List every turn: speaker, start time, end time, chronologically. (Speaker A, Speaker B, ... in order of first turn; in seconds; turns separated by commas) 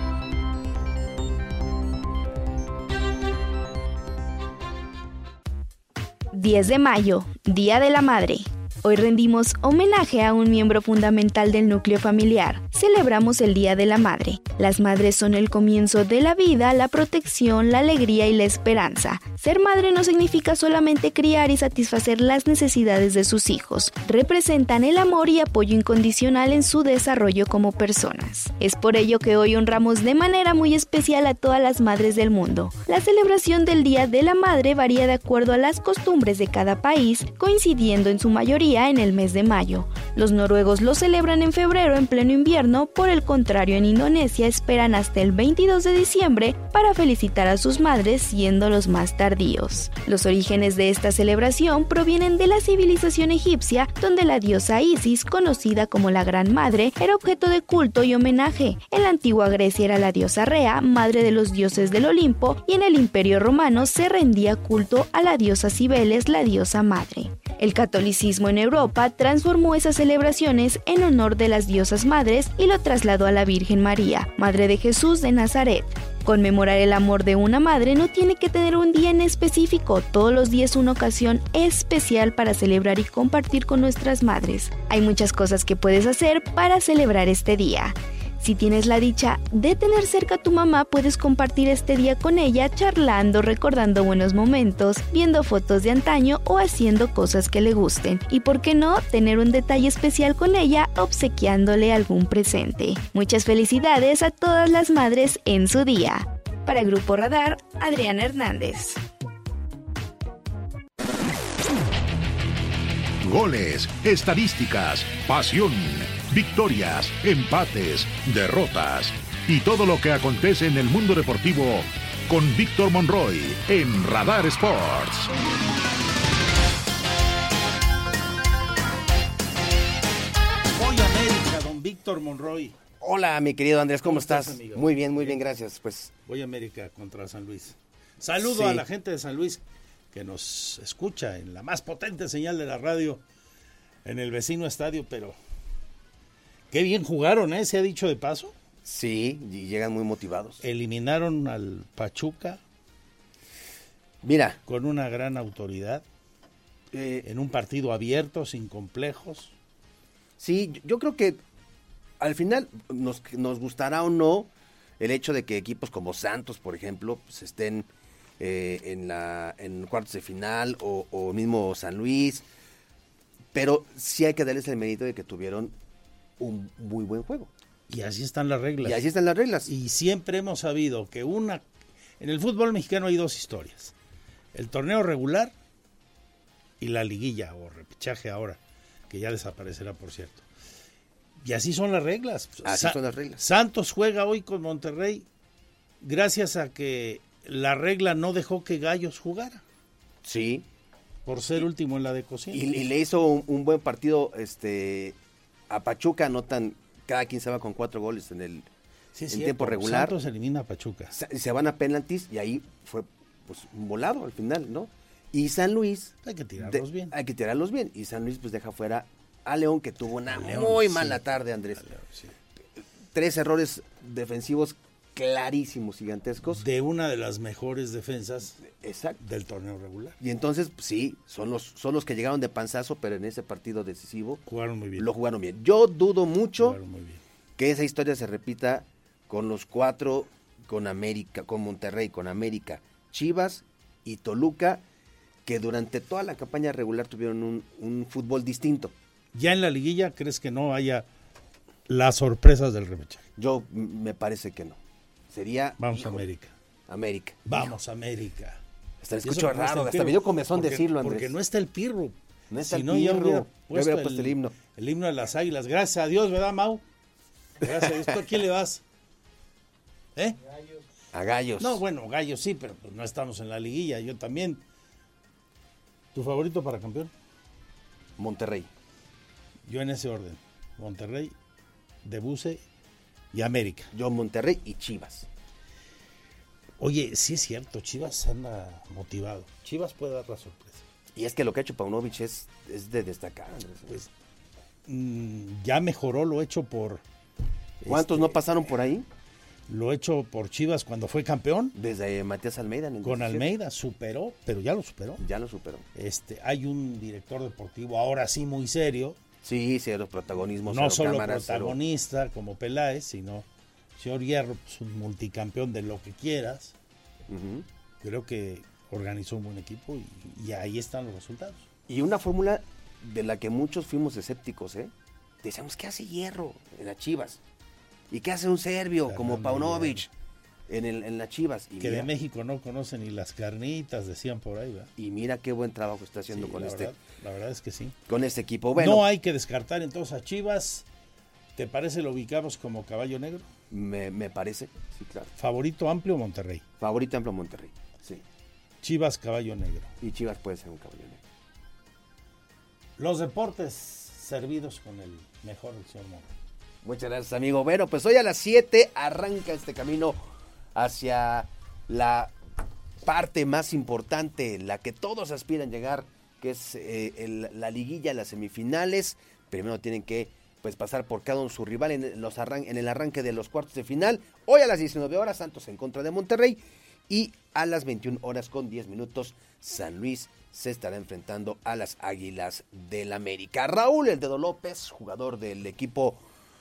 Speaker A: 6.3-109.0, Speaker B: 113.2-125.3, Speaker C: 130.7-132.8, Speaker D: 133.0-136.1, Speaker C: 134.0-135.4, Speaker C: 136.2-143.2, Speaker D: 138.4-138.8, Speaker C: 144.1-145.4, Speaker C: 146.7-148.6, Speaker D: 148.8-150.6, Speaker C: 150.6-152.6, Speaker D: 154.2-154.6, Speaker C: 154.7-156.0, Speaker D: 156.9-157.3, Speaker C: 157.2-159.5, Speaker D: 160.4-161.4, Speaker D: 162.2-167.9, Speaker D: 168.4-172.5, Speaker D: 173.5-175.8, Speaker D: 176.4-177.5, Speaker C: 177.9-179.1, Speaker D: 178.8-179.7, Speaker C: 179.7-181.6, Speaker C: 182.2-183.9, Speaker C: 184.5-185.5, Speaker C: 186.8-188.6, Speaker C: 189.1-190.5, Speaker C: 191.4-195.3, Speaker D: 192.6-193.4, Speaker C: 196.0-199.6, Speaker D: 200.2-200.7, Speaker C: 201.3-202.9, Speaker D: 202.5-205.2, Speaker D: 205.7-208.7, Speaker C: 209.2-211.2, Speaker D: 209.3-210.2, Speaker D: 211.1-221.8, Speaker C: 216.2-217.1, Speaker C: 220.3-221.2, Speaker C: 221.8-222.3, Speaker D: 223.1-226.6, Speaker C: 226.5-228.6, Speaker D: 228.6-229.2, Speaker C: 229.2-230.2, Speaker D: 230.2-234.4, Speaker C: 234.4-235.1, Speaker D: 235.0-236.8, Speaker C: 236.6-237.2, Speaker D: 237.6-244.8, Speaker D: 245.5-248.9, Speaker C: 249.3-251.1, Speaker C: 251.9-253.2, Speaker D: 253.4-254.8, Speaker D: 255.3-256.2, Speaker C: 255.8-256.6, Speaker D: 256.9-257.7, Speaker C: 257.5-258.6, Speaker D: 259.0-261.3, Speaker C: 259.2-266.8, Speaker D: 262.5-264.6, Speaker C: 267.6-268.8, Speaker D: 271.1-271.8, Speaker C: 271.6-274.6, Speaker C: 276.1-277.1, Speaker D: 278.2-278.7, Speaker C: 279.7-281.3, Speaker C: 282.0-282.6, Speaker C: 283.3-283.9, Speaker D: 283.9-285.3, Speaker C: 286.8-290.8, Speaker D: 291.1-294.0, Speaker C: 294.9-297.0, Speaker D: 297.8-299.1, Speaker C: 297.9-298.4, Speaker C: 299.7-301.8, Speaker D: 301.8-303.5, Speaker C: 303.0-305.2, Speaker D: 305.2-305.9, Speaker C: 305.9-309.2, Speaker D: 309.4-311.8, Speaker C: 310.7-313.5, Speaker C: 314.0-316.7, Speaker D: 317.3-317.7, Speaker C: 318.0-321.7, Speaker D: 321.9-327.4, Speaker D: 328.1-330.1, Speaker C: 329.1-330.1, Speaker D: 330.7-332.1, Speaker C: 331.8-334.9, Speaker D: 335.0-336.9, Speaker C: 336.3-338.0, Speaker D: 338.1-339.1, Speaker C: 338.8-340.9, Speaker C: 341.6-343.5, Speaker D: 343.7-345.3, Speaker C: 345.4-346.6, Speaker D: 346.8-348.2, Speaker C: 348.8-349.9, Speaker D: 350.0-351.2, Speaker C: 353.0-356.3, Speaker D: 356.8-360.2, Speaker D: 360.8-362.4, Speaker D: 363.0-386.2